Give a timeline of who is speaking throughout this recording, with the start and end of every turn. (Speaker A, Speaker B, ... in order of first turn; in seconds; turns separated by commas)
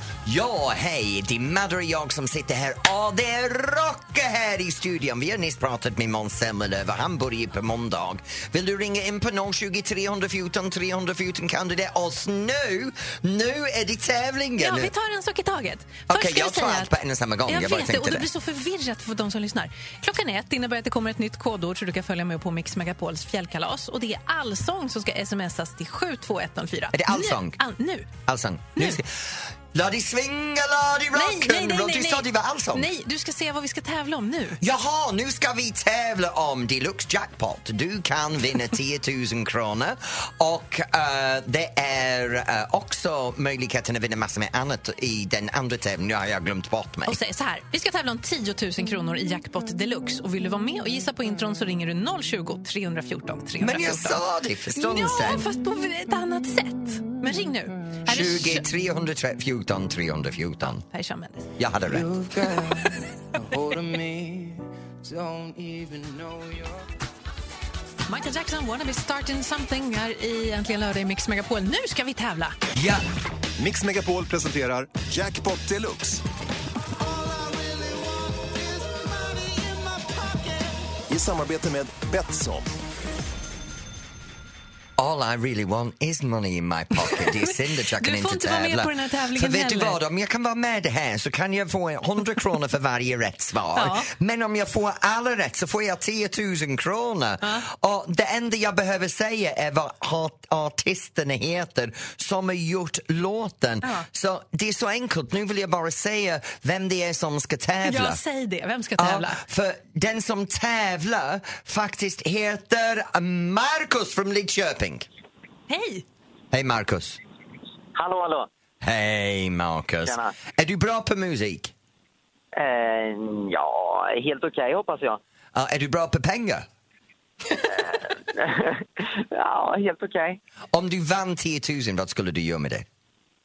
Speaker A: 0.2-14.9, Speaker B: 14.6-28.1, Speaker A: 16.1-18.3, Speaker A: 26.9-27.6, Speaker A: 28.2-32.9, Speaker B: 28.7-29.0, Speaker B: 31.1-34.6, Speaker A: 34.6-47.2, Speaker B: 47.0-54.2, Speaker A: 53.6-55.5, Speaker B: 54.7-58.6, Speaker A: 58.0-60.8, Speaker B: 60.9-61.5, Speaker A: 61.6-62.1, Speaker C: 61.9-66.9, Speaker B: 68.1-72.6, Speaker A: 72.7-73.0, Speaker D: 73.6-76.2, Speaker D: 77.0-82.7, Speaker A: 85.0-108.2, Speaker B: 87.1-90.0, Speaker B: 93.8-94.1, Speaker B: 97.4-97.7, Speaker B: 107.8-109.4, Speaker A: 109.0-115.1, Speaker B: 115.7-116.0, Speaker A: 116.5-117.2, Speaker E: 117.9-118.5, Speaker A: 118.8-121.7, Speaker E: 120.0-120.3, Speaker E: 122.5-125.2, Speaker A: 125.5-126.7, Speaker E: 127.6-130.4, Speaker A: 130.7-132.8